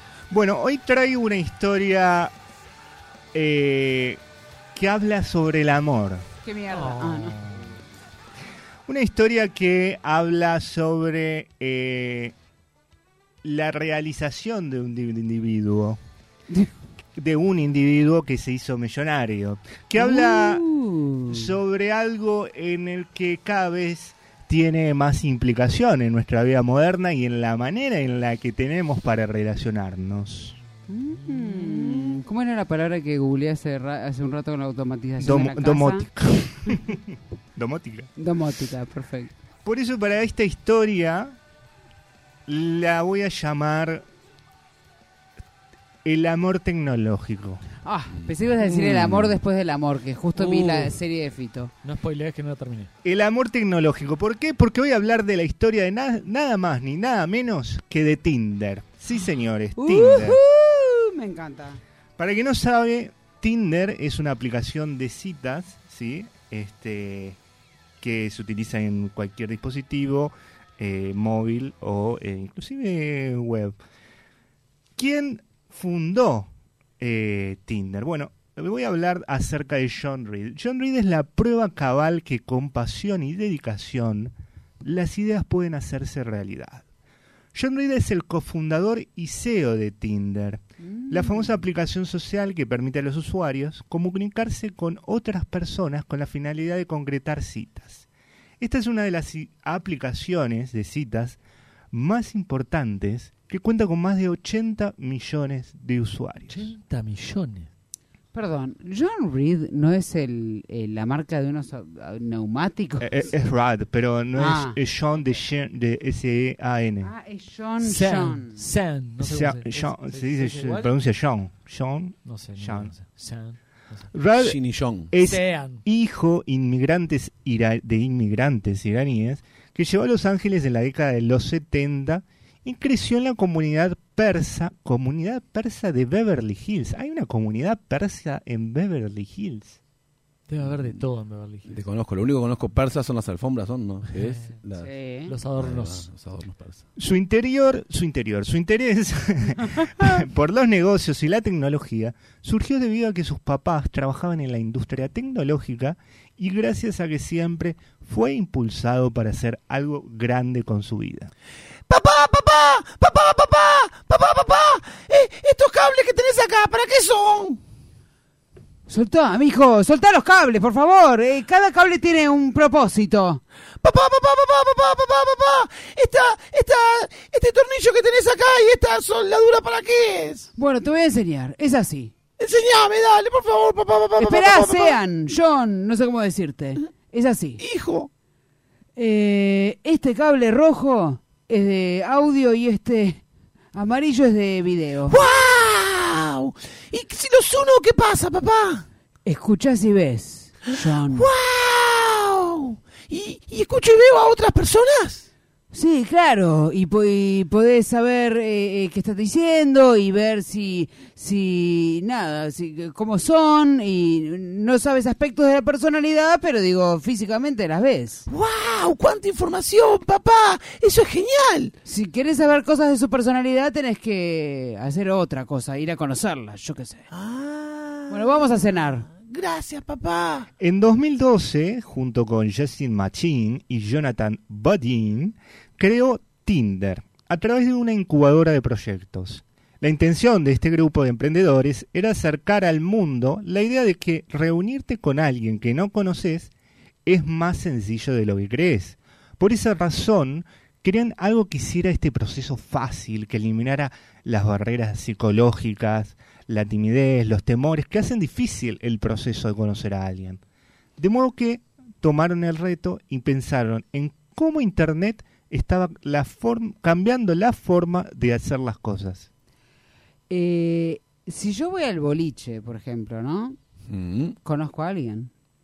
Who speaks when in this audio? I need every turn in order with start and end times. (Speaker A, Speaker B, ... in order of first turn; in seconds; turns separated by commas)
Speaker A: 0.3-2.3, Speaker A: 3.3-4.2, Speaker A: 4.7-6.3, Speaker B: 6.4-7.7, Speaker C: 6.7-7.7, Speaker A: 8.9-12.3, Speaker A: 13.4-16.0, Speaker A: 17.2-20.6, Speaker B: 20.0-21.5, Speaker A: 21.3-30.6, Speaker B: 30.9-36.1, Speaker A: 35.2-37.0, Speaker A: 37.6-38.1, Speaker B: 38.2-39.3, Speaker A: 39.6-41.4, Speaker A: 42.5-44.1, Speaker A: 46.0-47.6, Speaker B: 47.9-51.7, Speaker C: 50.4-50.9, Speaker C: 51.8-52.9, Speaker A: 53.0-60.4, Speaker B: 59.8-61.8, Speaker A: 62.2-67.4, Speaker A: 68.0-73.8, Speaker A: 75.0-86.8, Speaker A: 87.5-98.1, Speaker B: 90.8-91.5, Speaker A: 98.6-101.4, Speaker A: 101.9-106.7, Speaker C: 106.5-107.7, Speaker B: 108.3-113.1, Speaker A: 113.0-117.1, Speaker B: 114.4-114.8, Speaker B: 117.0-118.6, Speaker C: 117.8-120.9, Speaker A: 119.2-122.9, Speaker C: 122.2-124.1, Speaker A: 124.1-124.6, Speaker D: 124.4-125.1, Speaker A: 125.1-139.8, Speaker C: 125.2-125.8, Speaker C: 140.5-141.8, Speaker D: 141.7-144.9, Speaker C: 144.1-144.6, Speaker B: 144.8-145.3, Speaker C: 145.3-146.1, Speaker D: 145.6-146.8, Speaker A: 147.0-161.3, Speaker E: 161.9-167.5, Speaker B: 168.9-173.4, Speaker E: 173.8-180.4, Speaker B: 180.6-182.1, Speaker E: 182.4-184.9, Speaker B: 184.2-187.6, Speaker E: 187.6-188.1, Speaker B: 189.0-193.2, Speaker B: 193.7-195.2, Speaker E: 195.1-198.8, Speaker B: 199.3-201.3, Speaker E: 201.1-205.2, Speaker B: 205.7-218.2, Speaker E: 218.3-221.7, Speaker B: 221.8-227.1, Speaker E: 227.1-228.1, Speaker B: 228.1-229.1, Speaker E: 229.2-230.5, Speaker A: 230.6-246.5, Speaker A: 247.1-260.4, Speaker A: 261.0-269.3, Speaker B: 270.3-273.6, Speaker D: 273.9-274.4, Speaker B: 274.4-275.3